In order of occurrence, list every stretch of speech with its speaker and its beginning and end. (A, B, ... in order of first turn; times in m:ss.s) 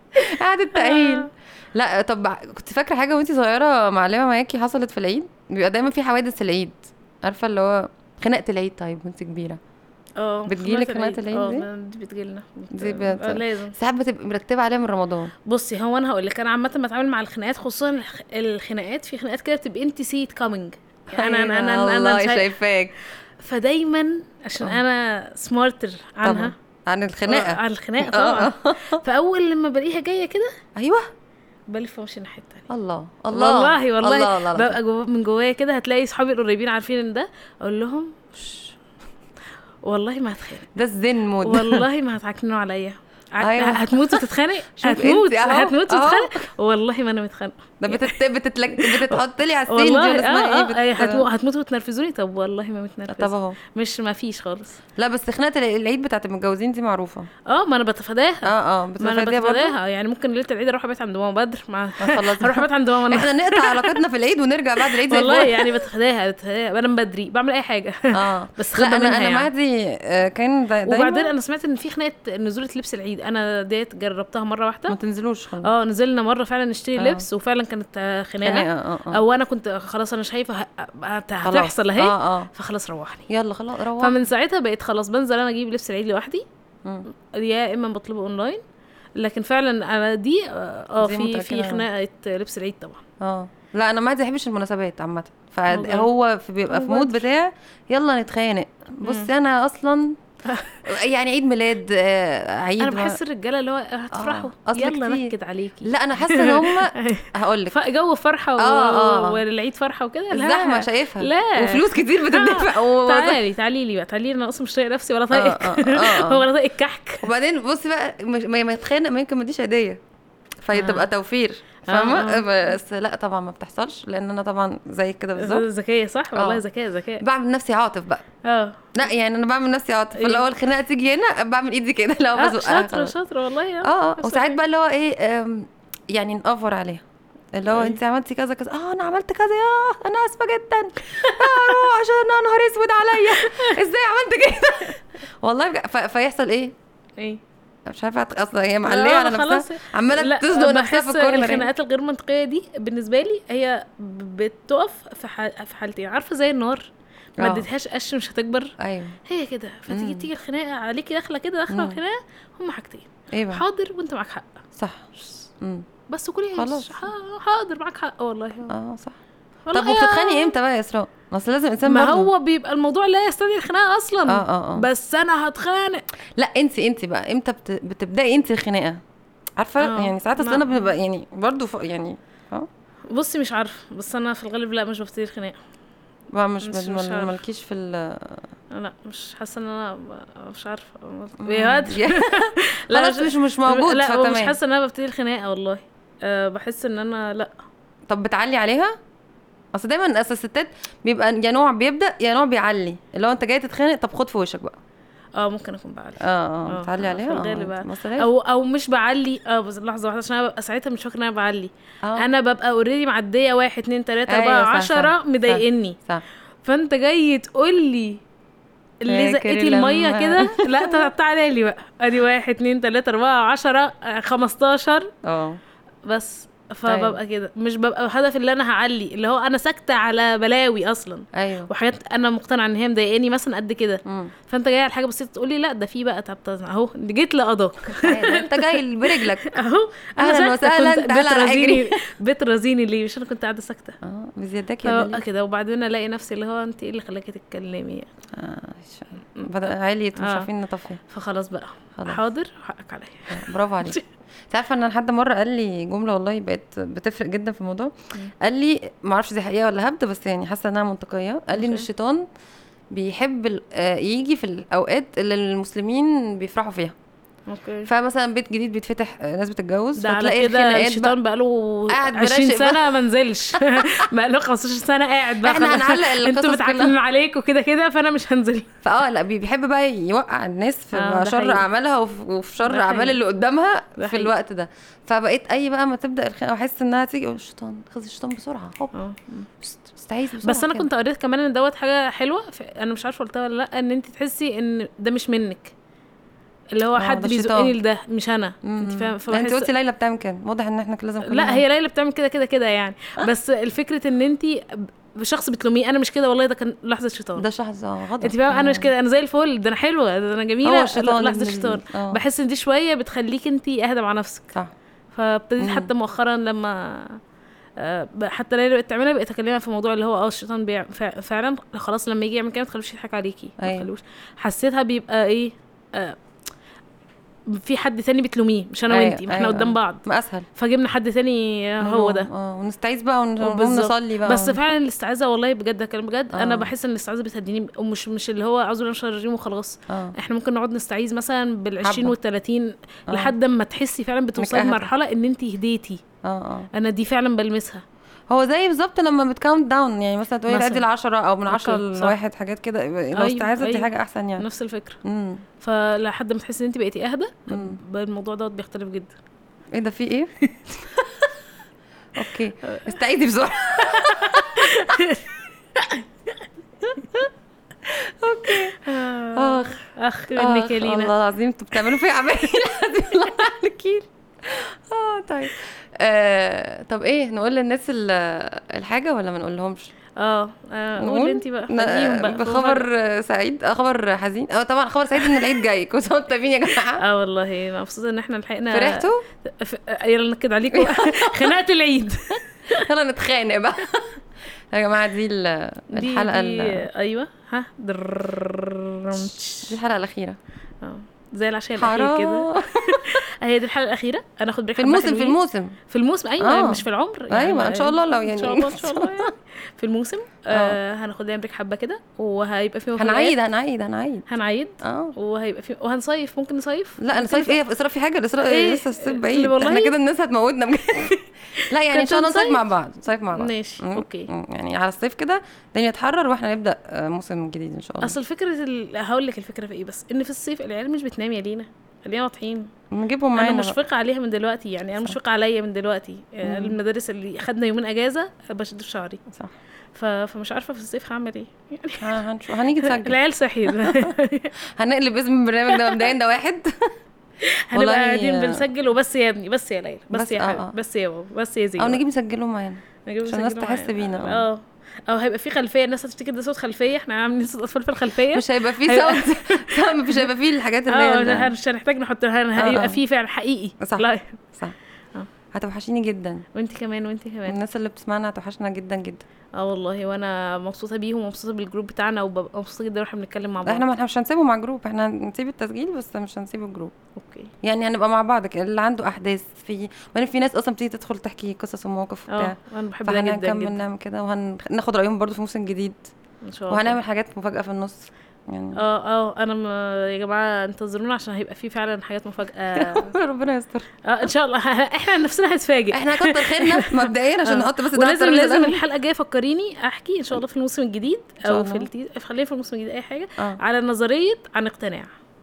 0:00.1-0:09.6 A
0:00.7-0:01.3 B
0:10.2-0:13.7 B
0:10.5-0:11.7 A
0:12.7-0:15.3 A
0:15.4-0:22.5 B
0:21.1-0:22.9 A
0:23.4-0:26.5 B
0:26.2-0:29.0 A
0:27.3-0:30.6 B
0:30.7-0:31.1 A
0:31.7-0:32.7 B
0:32.7-0:34.8 A
0:33.3-0:38.7 B
0:39.8-0:40.7 B
0:40.7-0:41.9 A
0:41.4-0:48.2 B
0:43.4-0:46.4 A
0:47.8-0:51.3 A
0:48.8-0:54.8 B
0:53.1-0:53.6 A
0:55.0-0:57.3 A
0:57.5-1:04.0 B
0:58.4-0:59.7 A
1:02.0-1:05.8 A
1:04.8-1:09.5 B
1:08.1-1:11.3 A
1:10.9-1:15.0 B
1:14.9-1:15.7 A
1:15.6-1:23.3 B
1:17.0-1:17.2 A
1:18.4-1:19.2 A
1:21.4-1:22.5 A
1:23.3-1:24.1 A
1:24.0-1:26.4 B
1:27.2-1:28.6 B
1:29.2-1:33.0 B
1:31.0-1:31.8 A
1:33.2-1:40.2 A
1:35.7-1:36.1 B
1:36.7-1:37.2 B
1:39.0-1:39.3 B
1:40.5-1:40.8 B
1:40.8-1:43.2 A
1:42.8-1:57.2 B
1:44.1-1:45.3 A
1:45.8-1:47.8 A
1:48.6-1:49.4 A
1:50.3-1:53.4 A
1:55.3-1:56.5 A
1:57.2-2:00.0 A
2:00.6-2:05.6 A
2:00.7-2:01.1 B
2:01.9-2:02.7 B
2:05.4-2:07.2 B
2:06.3-2:06.6 A
2:07.2-2:08.2 A
2:08.4-2:08.9 B
2:08.9-2:13.1 A
2:10.1-2:10.5 B
2:12.4-2:14.6 B
2:13.8-2:26.7 A
2:17.7-2:18.0 B
2:21.1-2:21.8 B
2:23.2-2:23.8 B
2:27.8-2:31.7 A
2:28.8-2:38.7 B
2:37.4-2:37.7 A
2:38.8-2:39.2 A
2:39.2-2:44.5 B
2:39.9-2:40.3 A
2:41.7-2:42.0 A
2:43.3-2:43.6 A
2:44.8-2:45.0 A
2:45.2-2:45.4 B
2:45.6-2:45.8 A
2:46.1-2:48.8 B
2:46.6-2:47.0 A
2:48.7-2:49.2 A
2:49.7-2:50.5 B
2:49.7-2:52.3 A
2:51.8-2:56.0 B
2:54.3-2:54.9 A
2:56.4-2:59.0 A
2:59.6-3:02.7 A
2:59.8-3:00.9 B
3:03.1-3:05.6 B
3:06.3-3:08.4 A
3:06.6-3:07.4 B
3:08.7-3:17.5 B
3:11.4-3:14.6 A
3:18.1-3:18.9 A
3:19.7-3:24.8 A
3:25.4-3:36.0 B
3:26.2-3:28.3 A
3:34.3-3:36.2 A
3:36.6-3:38.2 B
3:39.0-3:45.1 B
3:39.1-3:41.1 A
3:45.2-3:45.6 A
3:46.0-4:04.0 B
3:46.9-3:47.2 A
3:51.3-3:51.7 A
3:54.0-3:54.3 A
3:58.0-3:59.6 A
4:00.2-4:02.0 A
4:04.0-4:05.2 A
4:04.8-4:08.1 B
4:08.3-4:11.0 A
4:09.4-4:10.5 B
4:11.1-4:14.0 B
4:12.0-4:12.2 A
4:13.3-4:22.2 A
4:21.5-4:21.9 B
4:22.9-4:26.9 A
4:27.5-4:27.9 B
4:27.8-4:31.2 A
4:30.0-4:38.7 B
4:31.9-4:32.9 A
4:33.6-4:34.0 A
4:35.4-4:37.0 A
4:38.8-4:49.0 A
4:40.9-4:41.6 B
4:42.6-4:43.2 B
4:44.0-4:44.3 B
4:48.9-4:49.5 B
4:49.6-4:50.9 A
4:50.4-4:55.7 B
4:56.7-4:59.7 B
4:57.0-4:57.8 A
4:58.6-5:01.6 A
5:01.2-5:07.4 B
5:07.4-5:08.9 A
5:08.2-5:14.5 B
5:10.6-5:12.2 A
5:15.1-5:17.2 B
5:15.6-5:15.9 A
5:17.8-5:26.2 B
5:23.6-5:23.9 A
5:27.5-5:30.0 B
5:28.9-5:30.4 A
5:30.6-5:32.3 B
5:31.8-5:34.6 A
5:33.4-5:46.0 B
5:36.3-5:36.7 A
5:39.9-5:40.1 A
5:41.8-5:42.1 A
5:43.1-5:43.3 A
5:44.4-5:44.9 A
5:46.2-5:46.7 A
5:46.7-5:47.8 B
5:48.3-5:54.4 A
5:50.5-5:50.8 B
5:51.5-5:52.1 B
5:53.2-5:55.0 B
5:55.0-5:55.4 A
5:55.6-5:59.2 B
5:57.5-5:57.8 A
5:59.7-6:00.3 A
6:02.1-6:05.0 A
6:02.6-6:02.9 B
6:03.8-6:07.0 B
6:07.8-6:08.8 A
6:08.4-6:11.1 B
6:09.3-6:09.8 A
6:10.3-6:19.9 A
6:20.2-6:22.9 B
6:21.0-6:27.0 A
6:27.0-6:32.8 B
6:28.7-6:29.2 A
6:30.7-6:31.6 A
6:32.7-6:34.2 A
6:34.7-6:36.8 A
6:35.9-6:39.7 B
6:39.7-6:40.4 A
6:40.8-6:53.3 B
6:41.8-6:43.2 A
6:44.8-6:45.8 A
6:46.4-6:49.3 A
6:50.5-6:50.8 A
6:53.0-6:54.2 A
6:54.3-6:57.6 B
6:54.8-6:55.1 A
6:57.0-7:08.2 A
6:58.4-6:59.9 B
7:01.5-7:02.6 B
7:03.3-7:04.3 B
7:08.0-7:12.7 B
7:12.9-7:13.8 A
7:13.3-7:19.2 B
7:16.4-7:16.8 A
7:19.9-7:22.2 B
7:22.0-7:24.1 A
7:22.7-7:24.5 B
7:24.8-7:26.9 A
7:25.7-7:26.0 B
7:27.4-7:32.0 B
7:27.7-7:28.6 A
7:30.1-7:30.7 A
7:31.8-7:34.5 A
7:33.0-7:40.2 B
7:38.3-7:41.5 A
7:40.9-7:44.4 B
7:42.6-7:43.0 A
7:43.8-7:44.7 A
7:45.5-7:46.4 A
7:46.5-7:47.6 B
7:47.5-7:49.2 A
7:49.6-7:53.8 B
7:53.6-7:56.9 A
7:57.2-7:57.5 B
7:57.6-8:06.1 A
8:02.3-8:03.8 B
8:06.4-8:07.0 B
8:06.7-8:08.8 A
8:08.7-8:13.1 B
8:12.7-8:13.9 A
8:14.0-8:25.1 B
8:15.9-8:18.8 A
8:21.4-8:21.9 A